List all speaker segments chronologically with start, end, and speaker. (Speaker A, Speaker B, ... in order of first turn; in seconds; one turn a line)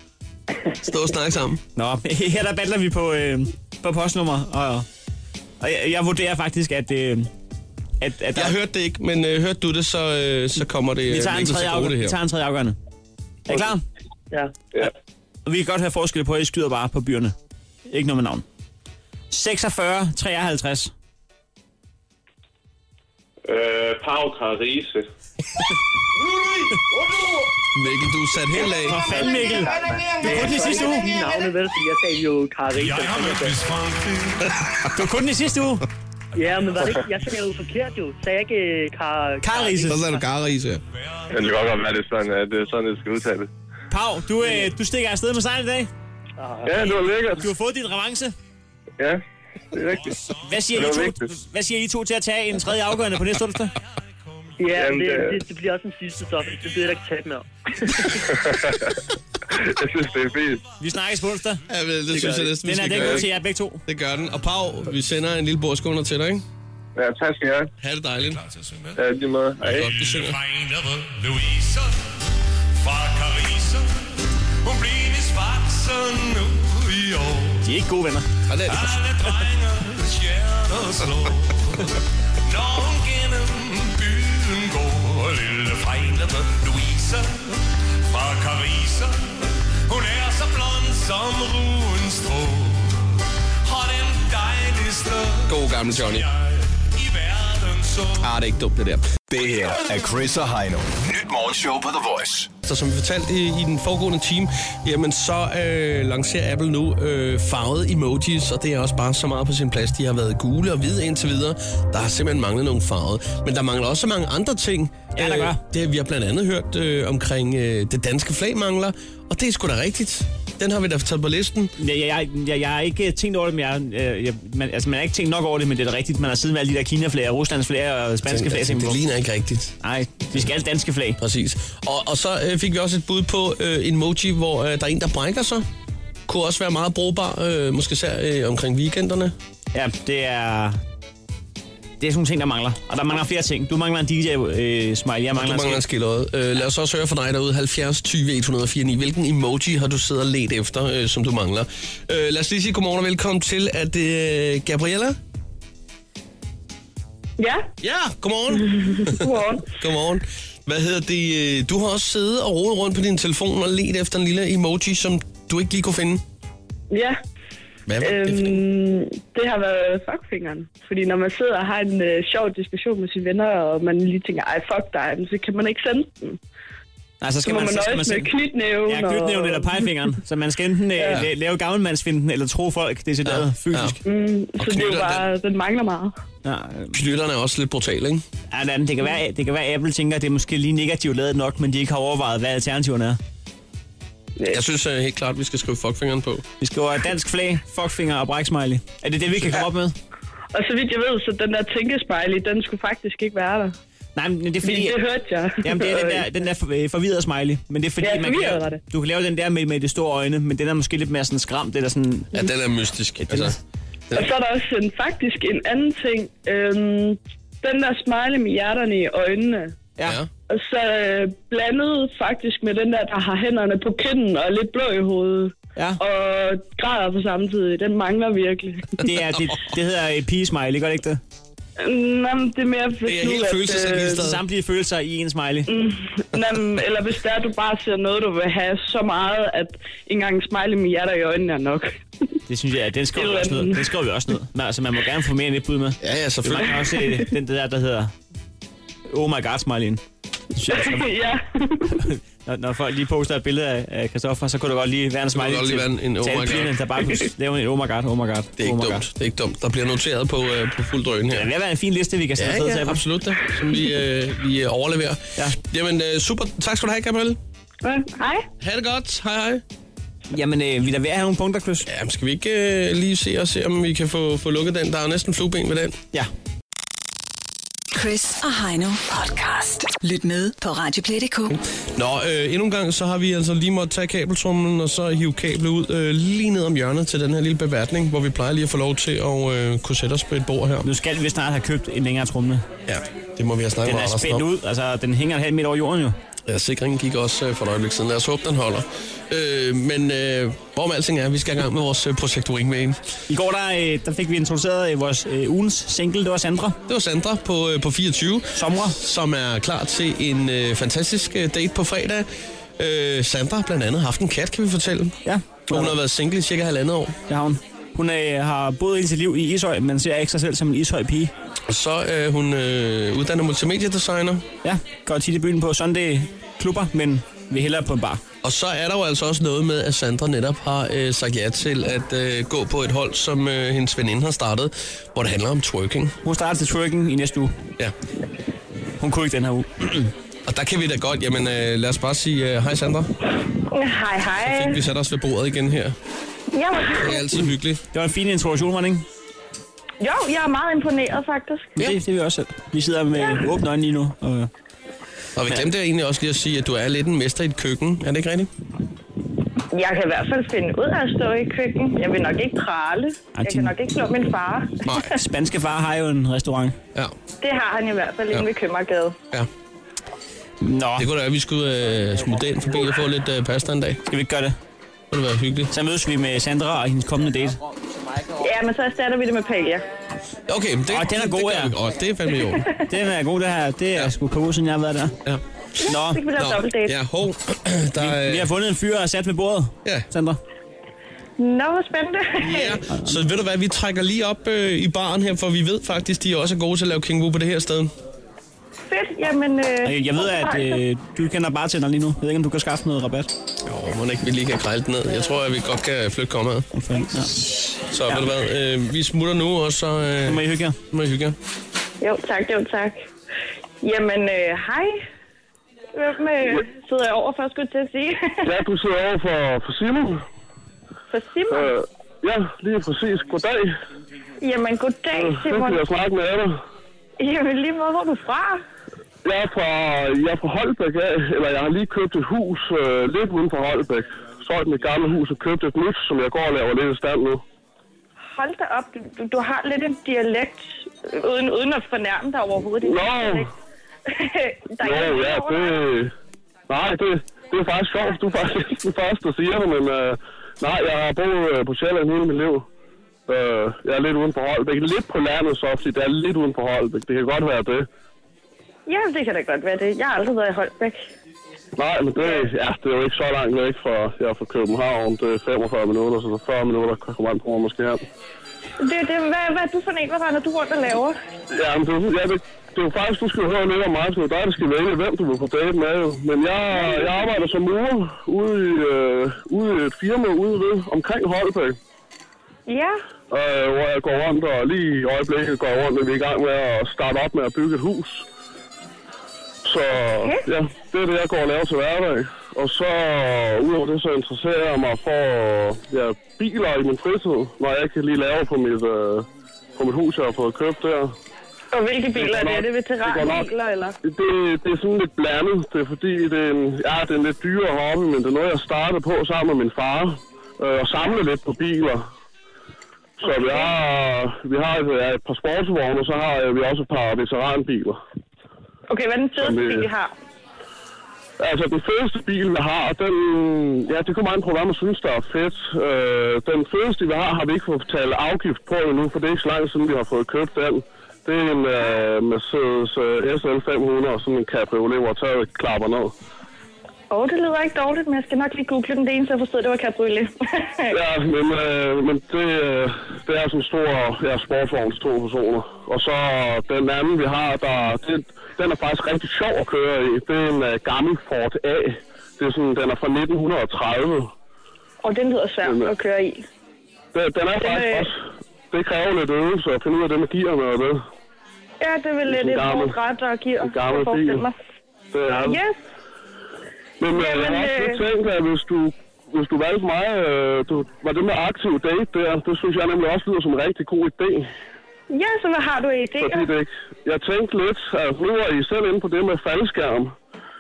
Speaker A: 0.8-1.6
Speaker B: 1.8-4.9
Speaker B: 5.6-7.3
Speaker B: 8.0-8.6
Speaker A: 8.4-12.2
Speaker B: 11.1-12.8
Speaker B: 13.5-13.8
Speaker B: 15.5-17.4
Speaker B: 17.9-18.4
Speaker B: 19.3-20.9
Speaker C: 23.5-25.0
Speaker A: 27.7-29.1
Speaker B: 28.8-29.7
Speaker D: 29.0-33.6
Speaker B: 30.2-31.0
Speaker E: 32.7-34.5
Speaker B: 34.9-35.9
Speaker D: 36.4-40.2
Speaker B: 39.4-40.1
Speaker A: 39.9-40.8
Speaker E: 40.9-41.8
Speaker C: 41.3-43.5
Speaker B: 43.9-45.9
Speaker D: 46.4-47.0
Speaker C: 46.6-47.5
Speaker B: 47.4-48.3
Speaker C: 49.7-50.1
Speaker E: 49.9-50.9
Speaker B: 50.5-53.7
Speaker C: 50.7-51.3
Speaker E: 53.8-54.6
Speaker D: 54.6-58.3
Speaker C: 54.7-55.4
Speaker C: 58.4-58.8
Speaker C: 59.5-60.6
Speaker E: 60.0-60.6
Speaker B: 60.8-61.6
Speaker A: 61.7-63.3
Speaker D: 62.1-62.5
Speaker B: 62.6-63.8
Speaker A: 63.9-66.4
Speaker C: 67.0-67.7
Speaker A: 67.8-68.4
Speaker E: 68.2-69.0
Speaker C: 69.0-69.9
Speaker E: 69.6-77.7
Speaker A: 69.6-70.4
Speaker B: 77.6-78.3
Speaker A: 78.5-78.9
Speaker E: 78.7-98.3
Speaker A: 95.5-96.3
Speaker A: 98.2-99.1
Speaker F: 99.3-102.5
Speaker A: 102.6-121.7
Speaker B: 115.2-115.6
Speaker B: 121.8-129.0
Speaker A: 128.3-129.8
Speaker B: 129.8-131.2
Speaker A: 131.2-135.7
Speaker A: 136.3-139.3
Speaker B: 139.7-140.8
Speaker B: 142.0-145.8
Speaker A: 145.4-155.2
Speaker G: 157.4-157.7
Speaker A: 157.8-166.2
Speaker G: 158.8-159.7
Speaker G: 166.9-167.2
Speaker A: 167.9-168.6
Speaker G: 168.0-176.4
Speaker B: 177.2-178.3
Speaker G: 177.4-179.9
Speaker B: 178.9-184.0
Speaker A: 183.2-184.0
Speaker G: 184.1-186.2
Speaker A: 184.6-185.2
Speaker B: 186.4-187.0
Speaker A: 186.9-188.2
Speaker B: 188.5-193.2
Speaker A: 194.5-196.4
Speaker B: 196.6-199.9
Speaker G: 200.5-203.8
Speaker B: 204.2-205.0
Speaker G: 204.6-206.3
Speaker B: 205.6-212.5
Speaker G: 208.0-208.8
Speaker A: 212.3-213.6
Speaker B: 213.3-213.6
Speaker G: 214.1-219.8
Speaker A: 220.0-220.3
Speaker G: 220.5-229.0
Speaker B: 229.0-231.2
Speaker G: 231.8-234.3
Speaker A: 233.1-234.4
Speaker B: 234.1-235.7
Speaker G: 235.7-241.9
Speaker B: 242.5-248.1
Speaker G: 243.2-243.8
Speaker A: 246.0-247.0
Speaker B: 249.1-250.0
Speaker B: 250.6-251.1
Speaker G: 250.7-251.9
Speaker B: 251.9-259.1
Speaker A: 255.3-256.8
Speaker A: 258.6-261.5
Speaker B: 261.3-263.0
Speaker A: 262.4-267.4
Speaker G: 267.8-268.5
Speaker A: 268.6-269.6
Speaker B: 270.3-271.9
Speaker A: 271.9-276.0
Speaker H: 277.9-281.6
Speaker A: 281.5-290.9
Speaker B: 290.8-292.7
Speaker A: 292.9-294.5
Speaker B: 293.9-296.2
Speaker A: 296.5-303.0
Speaker B: 303.3-306.8
Speaker A: 306.9-312.3
Speaker B: 308.6-309.0
Speaker A: 312.8-315.2
Speaker B: 315.2-316.0
Speaker A: 315.7-317.2
Speaker B: 317.3-321.3
Speaker A: 321.7-324.4
Speaker B: 324.6-328.2
Speaker A: 328.4-336.1
Speaker B: 336.2-337.6
Speaker B: 339.0-340.1
Speaker A: 340.5-343.1
Speaker I: 343.7-344.8
Speaker A: 344.4-346.0
Speaker I: 346.5-347.2
Speaker A: 347.0-347.8
Speaker B: 347.9-349.1
Speaker I: 350.0-351.8
Speaker B: 351.8-354.5
Speaker I: 353.2-353.4
Speaker A: 355.4-358.5
Speaker I: 359.7-364.9
Speaker B: 363.4-363.8
Speaker A: 364.9-365.1
Speaker B: 365.0-366.8
Speaker I: 367.4-369.2
Speaker B: 370.6-371.1
Speaker A: 371.0-374.0
Speaker B: 374.1-374.6
Speaker A: 375.1-375.7
Speaker B: 375.7-377.6
Speaker I: 378.4-379.9
Speaker A: 380.5-382.7
Speaker B: 380.9-381.7
Speaker B: 382.9-385.2
Speaker B: 385.9-386.3
Speaker I: 386.1-386.9
Speaker A: 386.4-388.5
Speaker B: 388.0-390.4
Speaker I: 391.4-392.8
Speaker A: 392.4-397.9
Speaker B: 392.9-393.2
Speaker I: 398.9-400.8
Speaker B: 399.8-403.3
Speaker A: 403.6-406.7
Speaker B: 406.8-407.4
Speaker A: 407.9-411.4
Speaker B: 410.3-410.8
Speaker I: 412.0-413.1
Speaker I: 413.8-415.0
Speaker I: 416.0-418.4
Speaker J: 418.4-420.2
Speaker I: 421.1-421.7
Speaker J: 421.5-423.7
Speaker I: 424.4-425.8
Speaker J: 425.1-426.6
Speaker I: 427.2-428.6
Speaker J: 429.2-437.4
Speaker I: 438.3-443.5
Speaker J: 442.8-443.5
Speaker I: 444.1-445.9
Speaker J: 444.8-446.1
Speaker J: 446.7-452.7
Speaker J: 453.3-457.9
Speaker I: 458.9-461.0
Speaker J: 461.8-468.0
Speaker I: 462.2-462.5
Speaker I: 468.8-471.2
Speaker J: 471.5-481.8
Speaker I: 476.7-477.4
Speaker I: 482.7-483.0
Speaker J: 483.3-488.2
Speaker J: 489.6-501.1
Speaker I: 501.7-504.0
Speaker J: 502.1-503.5
Speaker J: 504.0-512.1
Speaker J: 513.2-518.0
Speaker I: 513.2-513.7
Speaker I: 518.9-520.1
Speaker J: 519.4-519.9
Speaker J: 521.4-536.1
Speaker I: 537.1-540.9
Speaker J: 540.9-554.3
Speaker I: 555.0-556.4
Speaker J: 555.6-555.9
Speaker J: 557.1-561.0
Speaker I: 557.6-558.1
Speaker I: 561.8-564.6
Speaker J: 562.3-562.9
Speaker J: 563.6-564.5
Speaker J: 565.1-565.6
Speaker I: 565.5-565.8
Speaker J: 567.0-574.5
Speaker I: 567.1-568.0
Speaker I: 575.1-576.5
Speaker J: 576.2-580.1